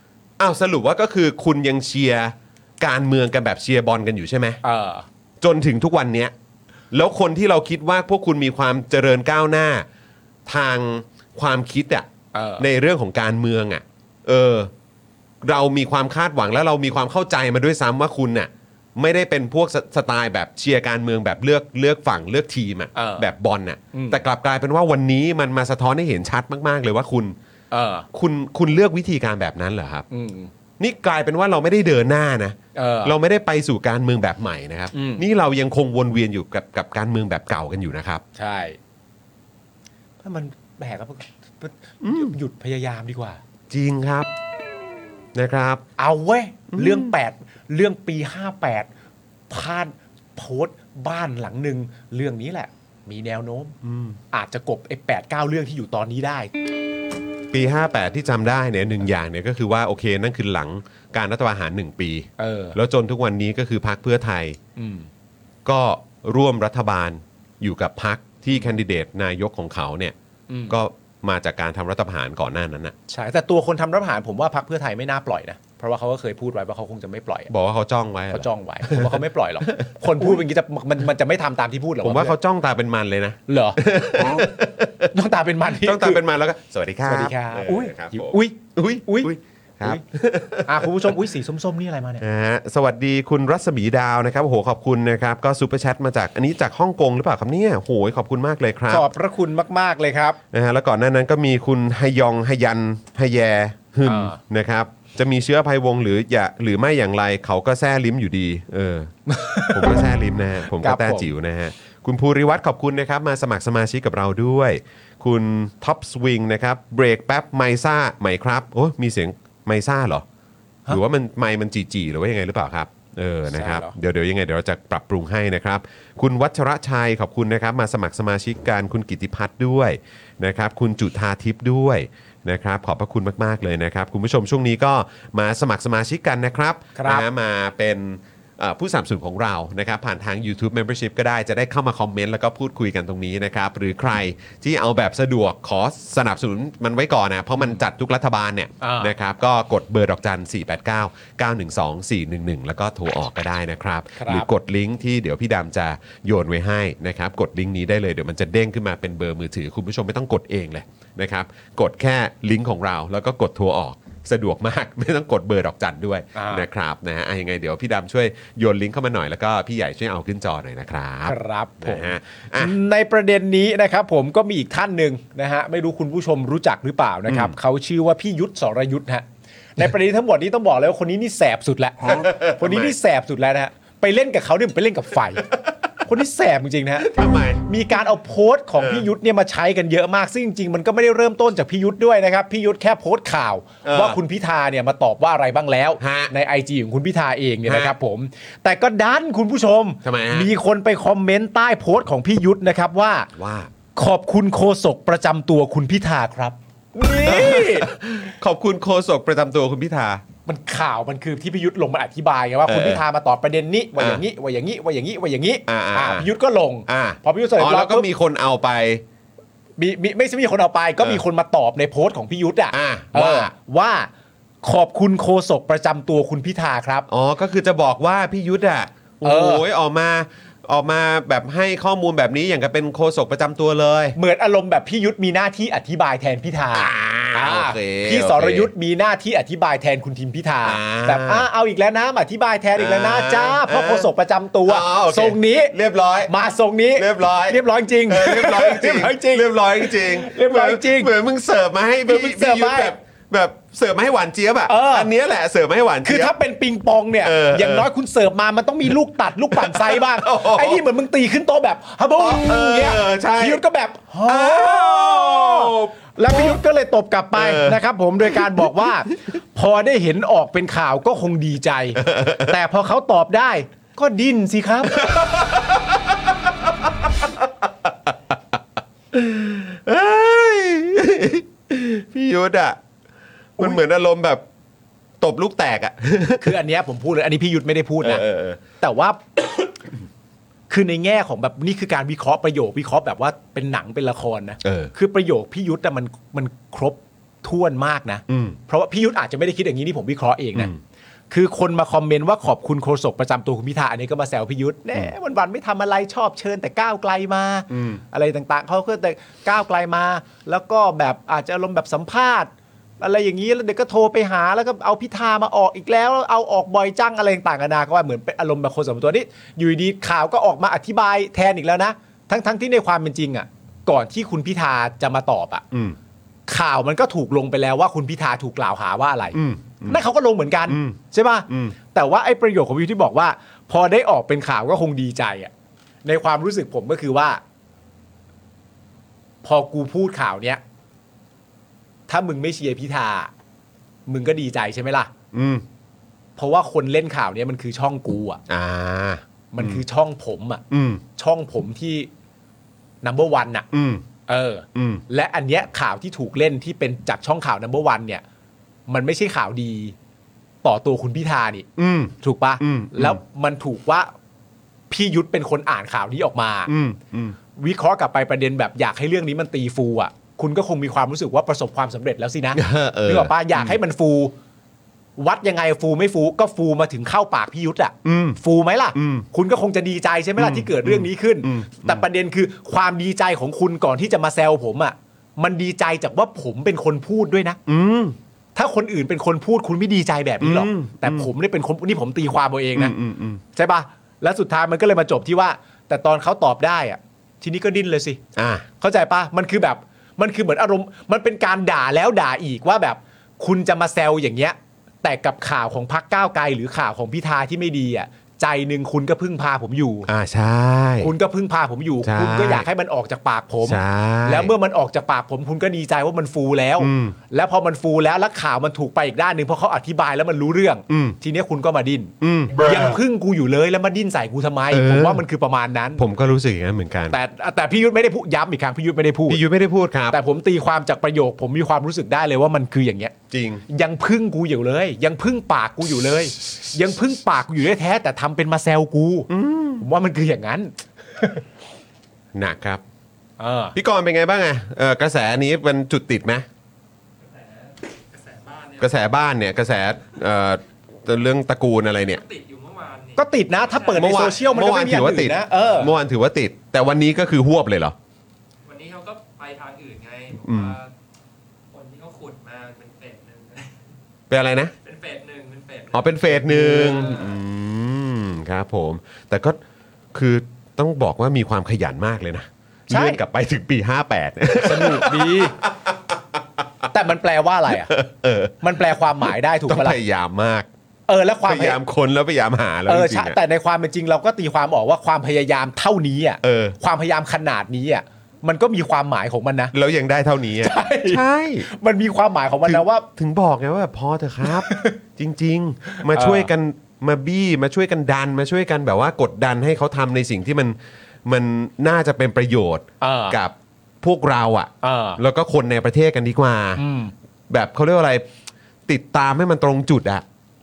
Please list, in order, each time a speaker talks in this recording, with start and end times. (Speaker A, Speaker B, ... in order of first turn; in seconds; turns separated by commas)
Speaker A: 0.4-4.6, Speaker B: 4.6-5.1, Speaker A: 5.4-6.3, Speaker A: 6.9-9.9, Speaker A: 10.5-12.1, Speaker B: 12.3-12.7, Speaker A: 12.6-14.7, Speaker A: 15.4-27.4, Speaker B: 22.9-23.3, Speaker B: 23.9-24.2, Speaker B: 27.7-28.1, Speaker A: 28.1-30.1, Speaker B: 30.1-30.5, Speaker A: 30.8-38.2, Speaker B: 32.8-33.1, Speaker B: 34.9-35.2, Speaker B: 38.4-38.8, Speaker B: 40.2-43.4, Speaker A: 42.0-42.4, Speaker A: 43.7-44.3, Speaker A: 45.4-45.8, Speaker B: 46.0-48.9, Speaker A: 46.7-47.1, Speaker B: 49.5-53.8, Speaker A: 53.8-54.2, Speaker B: 54.3-56.5, Speaker A: 57.5-64.6, Speaker B: 62.4-62.8, Speaker B: 64.8-65.1, Speaker A: 65.7-70.2, Speaker B: 70.5-70.8, Speaker A: 70.7-73.0, Speaker B: 73.1-77.5, Speaker A: 77.5-79.2, Speaker B: 78.3-82.4, Speaker A: 79.8-80.4, Speaker A: 82.0-85.1, Speaker B: 83.5-83.8, Speaker B: 85.1-86.2, Speaker A: 85.7-91.1, Speaker B: 87.1-89.3, Speaker B: 90.7-92.2, Speaker A: 92.2-99.1, Speaker B: 98.9-100.4, Speaker A: 100.5-109.1, Speaker B: 104.0-104.4, Speaker B: 109.3-110.1, Speaker A: 109.7-120.2, Speaker B: 110.8-111.3, Speaker A: 120.9-172.8, Speaker B: 123.5-124.0, Speaker B: 136.9-137.2, Speaker B: 148.8-149.1, Speaker B: 154.2-154.5, Speaker B: 166.3-166.7, Speaker B: 171.3-185.5, Speaker A: 177.3-177.6, Speaker A: 182.0-182.9, Speaker B: 186.1-187.1, Speaker A: 187.0-187.6, Speaker B: 187.7-203.3, Speaker A: 188.8-189.1, Speaker A: 193.8-194.2, Speaker A: 196.0-196.3, Speaker A: 197.7-197.9, Speaker A: 200.0-200.5, Speaker A: 203.3-203.7, Speaker B: 203.9-207.9, Speaker A: 207.2-210.2, Speaker B: 210.5-218.1, Speaker A: 212.7-213.0, Speaker A: 214.0-214.2, Speaker A: 215.7-216.3, Speaker A: 216.9-219.0, Speaker B: 219.8-224.1, Speaker A: 222.7-223.5, Speaker B: 224.6-227.1, Speaker A: 227.1-234.2, Speaker B: 229.2-229.6, Speaker B: 234.2-245.8, Speaker A: 236.7-238.7, Speaker A: 240.6-241.5, Speaker A: 242.8-244.1, Speaker A: 244.7-246.3, Speaker B: 246.3-251.1, Speaker A: 247.0-256.3, Speaker B: 252.1-253.0, Speaker B: 254.7-255.1, Speaker B: 256.0-275.1, Speaker A: 257.2-257.9, Speaker A: 259.5-260.9, Speaker A: 262.2-263.6, Speaker A: 264.3-266.6, Speaker A: 267.3-268.7, Speaker A: 272.0-272.6, Speaker A: 274.9-276.4, Speaker A: 277.2-278.4, Speaker A: 279.1-282.8, Speaker A: 283.6-284.4, Speaker A: 285.2-286.5, Speaker B: 286.4-288.3, Speaker A: 288.0-288.6, Speaker B: 288.8-289.8, Speaker B: 290.7-300.7, Speaker A: 294.6-294.9, Speaker A: 298.3-298.6, Speaker A: 300.6-300.8, Speaker B: 301.3-325.6, Speaker A: 307.7-308.0, Speaker A: 325.7-326.0, Speaker B: 326.5-335.5, Speaker A: 329.3-330.0, Speaker A: 330.7-331.0, Speaker A: 331.5-331.8, Speaker B: 336.1-337.4, Speaker B: 339.4-340.6, Speaker B: 342.1-343.3, Speaker B: 344.1-345.1, Speaker A: 345.3-345.6, Speaker B: 346.4-348.4, Speaker A: 348.5-349.8, Speaker B: 349.5-350.6, Speaker A: 350.7-351.0, Speaker B: 351.1-352.1, Speaker B: 353.0-353.7, Speaker A: 353.7-354.1, Speaker B: 354.3-358.2, Speaker A: 354.8-355.0, Speaker B: 358.9-359.9, Speaker B: 360.6-361.7, Speaker A: 361.8-363.2, Speaker B: 362.2-364.1, Speaker B: 364.9-366.7, Speaker A: 366.7-367.4, Speaker B: 367.6-374.3, Speaker A: 372.6-373.8, Speaker B: 375.2-387.6, Speaker A: 378.1-378.4, Speaker A: 378.9-379.3, Speaker A: 380.4-382.0, Speaker A: 387.7-388.2, Speaker B: 388.6-392.9, Speaker A: 390.4-391.3, Speaker A: 392.8-393.4, Speaker B: 393.5-398.2, Speaker A: 398.4-398.7, Speaker B: 398.8-410.1, Speaker A: 410.1-411.1, Speaker B: 411.0-426.0, Speaker A: 412.0-412.7, Speaker A: 413.6-414.5, Speaker A: 416.8-417.2, Speaker A: 420.9-421.2, Speaker A: 422.2-422.9, Speaker A: 424.7-425.2, Speaker A: 426.0-427.2, Speaker B: 427.1-429.4, Speaker A: 429.3-430.2, Speaker B: 430.1-433.1, Speaker A: 433.3-433.6, Speaker B: 433.7-441.4, Speaker A: 439.3-439.9, Speaker A: 442.4-442.8, Speaker B: 443.4-443.8, Speaker A: 443.8-446.5, Speaker C: 447.2-449.0, Speaker A: 448.8-452.2, Speaker C: 452.1-454.6, Speaker B: 453.2-455.9, Speaker A: 453.9-458.0, Speaker C: 455.5-455.9, Speaker C: 458.6-460.9, Speaker A: 460.4-460.8, Speaker C: 461.7-463.9, Speaker A: 464.3-464.7, Speaker C: 464.8-467.4, Speaker A: 465.9-469.6, Speaker B: 466.5-467.2, Speaker A: 470.1-476.4, Speaker B: 472.9-473.2, Speaker B: 474.6-475.6, Speaker B: 476.9-477.9, Speaker A: 477.9-478.9, Speaker B: 478.6-480.0, Speaker A: 479.7-480.7, Speaker B: 481.1-481.8, Speaker A: 481.5-483.4, Speaker B: 482.9-489.7, Speaker A: 486.4-486.8, Speaker A: 489.7-491.7, Speaker B: 490.6-493.1, Speaker A: 492.6-506.8, Speaker B: 494.5-494.9, Speaker B: 496.0-496.5, Speaker B: 503.0-503.4, Speaker B: 504.8-505.2, Speaker B: 506.8-507.1, Speaker A: 507.5-508.2, Speaker A: 508.9-510.2